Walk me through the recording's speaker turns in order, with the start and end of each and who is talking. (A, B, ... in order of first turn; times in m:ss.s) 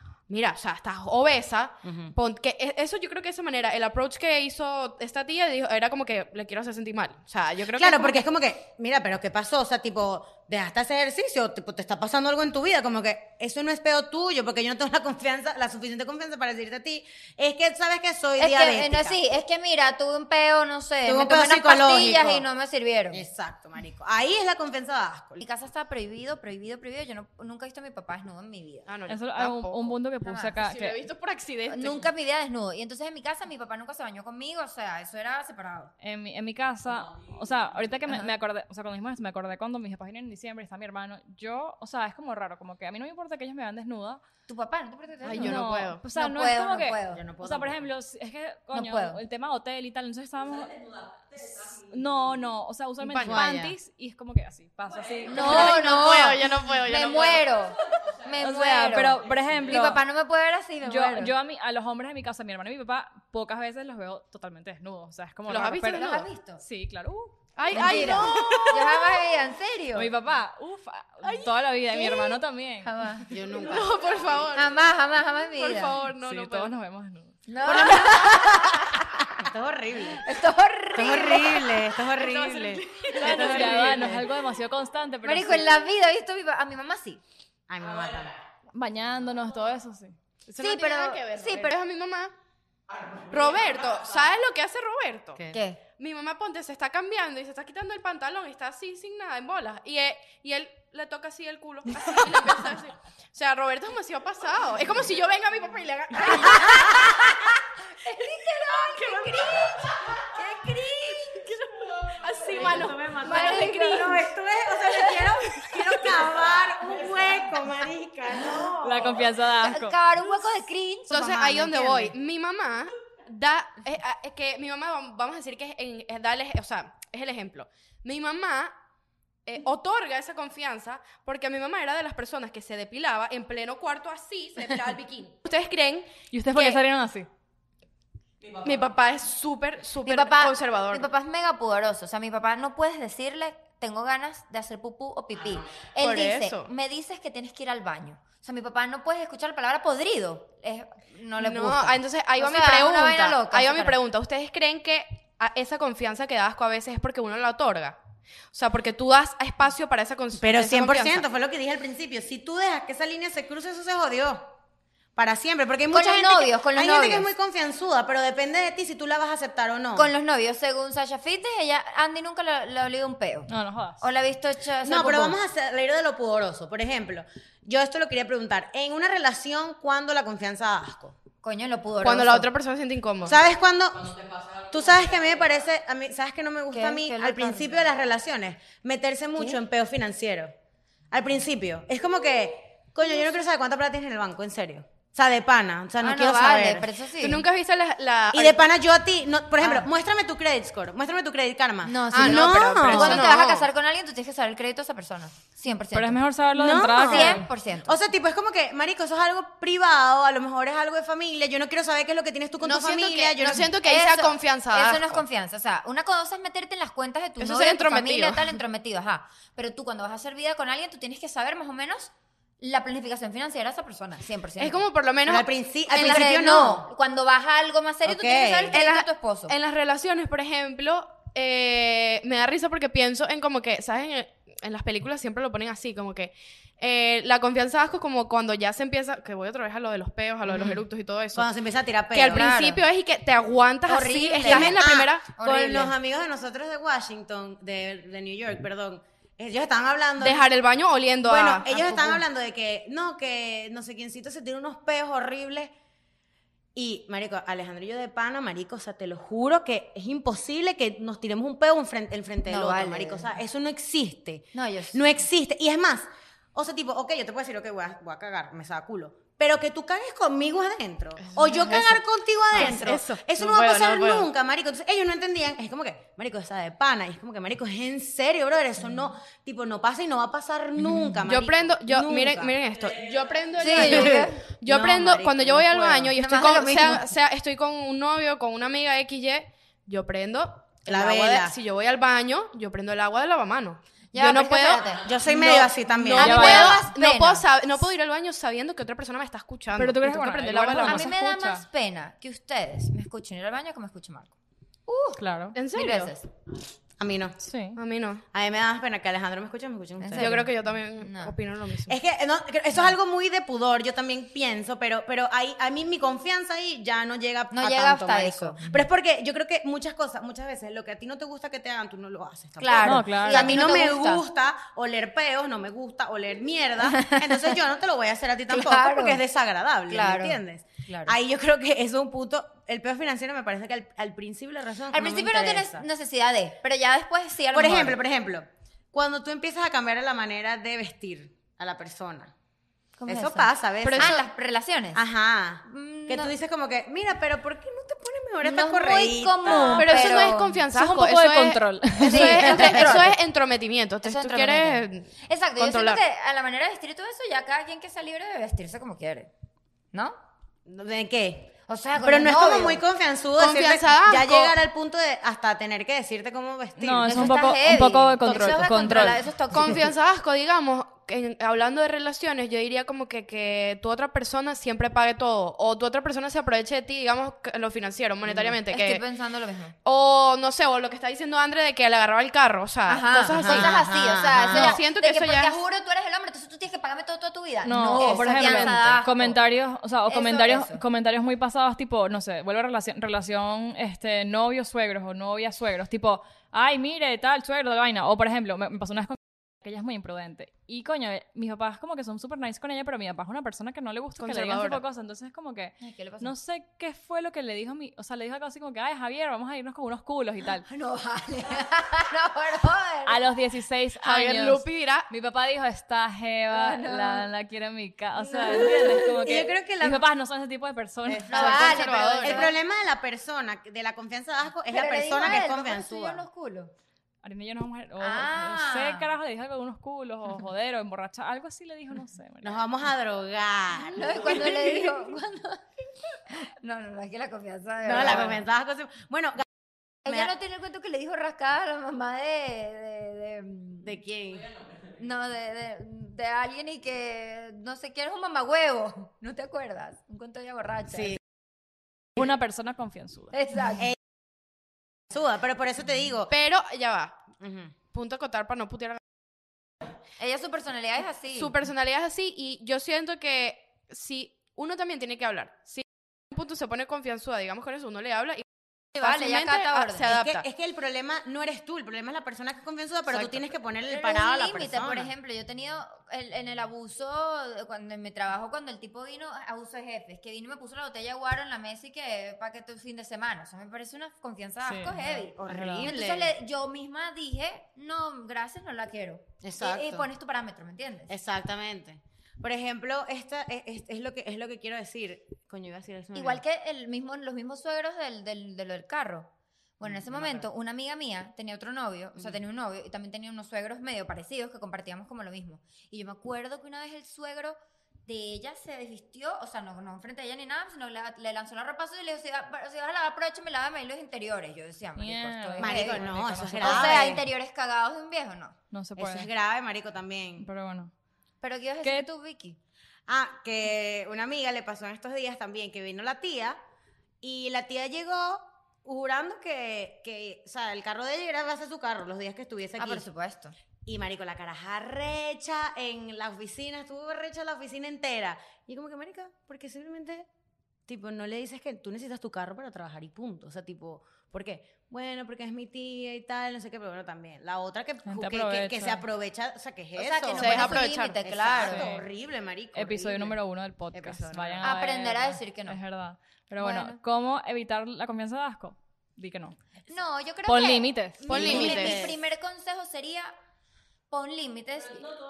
0:00.3-0:08.3 A
0:01.8-0:02.1 B
0:07.7-0:19.2 B
0:18.4-0:23.3 C
0:21.0-0:22.5 B
0:23.1-0:25.4 B
0:25.4-0:28.9 C
0:28.9-0:30.0 A
0:29.1-0:31.0 D
0:30.2-0:30.5 C
0:30.6-0:32.1 A
0:31.7-0:35.9 C
0:36.0-0:44.2 D
0:44.5-0:45.6 C
0:45.2-0:46.0 A
0:45.3-0:55.8 D
0:46.1-0:47.2 C
0:47.1-0:47.9 B
0:48.7-0:49.2 C
0:53.0-0:53.4 A
0:53.2-0:53.8 B
0:55.3-0:57.5 A
0:55.3-1:01.3 C
0:58.4-1:00.0 D
1:00.8-1:08.9 D
1:05.5-1:06.3 A
1:05.9-1:06.6 C
1:07.6-1:09.3 A
1:07.7-1:10.1 C
1:10.0-1:12.9 D
1:11.2-1:12.3 A
1:12.8-1:13.3 C
1:13.3-1:14.0 B
1:13.4-1:14.8 A
1:14.5-1:16.0 C
1:15.6-1:16.7 A
1:16.2-1:17.4 D
1:17.5-1:19.3 C
1:17.6-1:20.2 B
1:20.2-1:21.8 C
1:21.0-1:24.2 B
1:22.1-1:24.2 A
1:23.1-1:25.7 D
1:25.2-1:27.2 C
1:27.7-1:28.4 B
1:28.7-1:30.2 D
1:30.5-1:32.3 A
1:30.6-1:31.8 C
1:33.3-1:35.4 A
1:35.5-1:35.8 C
1:36.0-1:47.1 A
1:46.2-1:51.5 C
1:49.0-1:49.6 A
1:51.4-1:54.2 A
1:52.5-1:59.3 B
1:53.2-1:54.3 C
1:58.8-2:00.0 D
1:59.6-2:01.4 C
2:01.1-2:08.8 A
2:01.1-2:02.1 B
2:09.5-2:16.8 A
2:16.3-2:17.3 D
2:18.6-2:21.1 A
2:20.0-2:34.0 C
2:26.0-2:26.7 A
2:31.4-2:38.0 A
2:38.5-2:41.2 A
2:40.4-2:44.5 B
2:45.2-2:50.1 B
2:45.9-2:47.3 C
2:50.0-2:53.5 C
2:53.5-2:54.0 D
2:54.0-2:55.4 C
2:54.8-3:01.2 B
3:01.4-3:02.5 C
3:02.0-3:03.4 A
3:03.2-3:10.5 B
3:06.7-3:07.8 C
3:11.1-3:16.9 B
3:16.0-3:17.4 C
3:17.2-3:18.7 A
3:18.3-3:23.3 B
3:21.8-3:26.2 C
3:22.1-3:23.7 A
3:25.9-3:27.5 D
3:26.5-3:33.7 B
3:27.0-3:28.0 C
3:32.6-3:35.2 A
3:33.4-3:44.8 C
3:37.4-3:38.6 A
3:44.6-3:46.4 A
3:45.3-3:46.9 B
3:45.9-3:49.5 C
3:48.0-3:48.8 B
3:48.7-4:01.5 A
4:00.5-4:00.8 B
4:01.3-4:02.6 B
4:02.1-4:05.3 A
4:02.3-4:02.8 C
4:03.9-4:05.9 C
4:04.4-4:10.4 B
4:10.2-4:12.0 A
4:11.2-4:15.7 B
4:11.8-4:12.2 C
4:16.8-4:42.6 B
4:22.5-4:23.3 C
4:24.5-4:25.0 C
4:31.2-4:34.3 A
4:41.2-5:01.1 A
4:43.6-4:44.5 C
4:43.7-4:46.2 B
4:46.2-4:47.1 C
4:50.9-4:51.6 B
4:54.1-4:55.0 C
4:55.0-4:56.4 B
4:56.2-4:56.9 D
4:56.2-4:57.5 C
4:59.8-5:01.6 D
5:00.8-5:04.3 C
5:04.9-5:05.2 C
5:05.2-5:05.6 D
5:05.6-5:06.1 A
5:05.7-5:06.3 C
5:07.0-5:07.4 B
5:07.4-5:07.8 D
5:07.8-5:08.2 A
5:08.3-5:10.4 B
5:10.0-5:11.4 C
5:10.2-5:12.0 A
5:11.9-5:35.9 B
5:17.5-5:18.8 C
5:22.6-5:24.2 C
5:22.8-5:23.6 D
5:26.8-5:27.6 C
5:28.5-5:29.2 C
5:29.9-5:31.2 C
5:34.9-5:38.0 C
5:37.5-5:42.3 B
5:43.0-5:45.0 C
5:43.1-5:44.3 B
5:43.8-5:44.2 A
5:44.9-5:50.1 B
5:45.6-5:46.3 C
5:48.4-5:50.6 C
5:49.7-5:56.0 A
5:50.7-5:52.6 D
5:52.0-5:53.2 C
5:52.2-5:53.0 B
5:54.0-5:59.3 C
6:00.7-6:07.4 B
6:01.7-6:02.8 C
6:03.4-6:04.5 A
6:06.8-6:09.2 D
6:07.0-6:09.8 C
6:08.2-6:09.1 B
6:09.5-6:19.0 A
6:18.2-6:18.6 B
6:18.7-6:19.8 C
6:19.8-6:23.8 A
6:22.9-6:29.4 C
6:23.4-6:24.8 B
6:24.5-6:25.6 A
6:27.6-6:50.7 D
6:28.0-6:28.8 A
6:30.1-6:30.8 C
6:44.2-6:44.8 A
6:45.8-6:46.3 C
6:50.7-6:53.2 C
6:53.1-7:01.8 D
6:54.0-6:55.1 A
6:56.5-6:57.3 C
6:58.4-7:00.0 B
7:01.1-7:06.2 B
7:01.3-7:02.6 C
7:01.3-7:02.5 A
7:04.7-7:06.7 C
7:07.2-7:12.6 D
7:08.0-7:09.1 C
7:12.4-7:15.0 B
7:13.8-7:15.6 C
7:16.3-7:18.4 C
7:17.8-7:19.4 B
7:20.0-7:23.9 C
7:20.1-7:20.3 B
7:23.8-7:24.5 B
7:25.0-7:31.2 C
7:30.9-7:31.2 B
7:32.2-7:33.4 D
7:33.3-7:33.9 C
7:35.1-7:36.3 B
7:36.3-7:37.2 A
7:37.4-7:37.7 B
7:37.9-7:39.0 A
7:40.2-7:41.6 C
7:41.3-7:50.4 A
7:49.0-7:50.1 C
7:50.1-7:55.1 B
7:53.1-7:53.5 A
7:53.9-8:11.2 C
8:04.6-8:05.9 D
8:05.0-8:06.3 B
8:09.4-8:10.1 B
8:11.1-8:16.4 B
8:16.2-8:38.6 C
8:19.8-8:20.5 B
8:35.0-8:37.1 D
8:35.6-8:37.2 B
8:38.7-8:39.3 D
8:39.0-8:40.5 B
8:40.4-8:40.9 D
8:41.4-8:42.6 C
8:43.1-8:46.6 B
8:47.2-8:53.0 B
8:52.8-8:53.6 C
8:53.8-9:00.3 B
9:00.9-9:13.4 B
9:08.1-9:09.0 D
9:10.0-9:11.9 C
9:10.4-9:11.2 A
9:11.6-9:12.0 D
9:12.8-9:19.6 D
9:13.9-9:14.7 B
9:14.6-9:15.8 C
9:16.6-9:17.0 C
9:19.9-9:23.3 C
9:20.5-9:21.7 D
9:21.3-9:22.1 A
9:21.3-9:22.2 B
9:24.1-9:25.1 C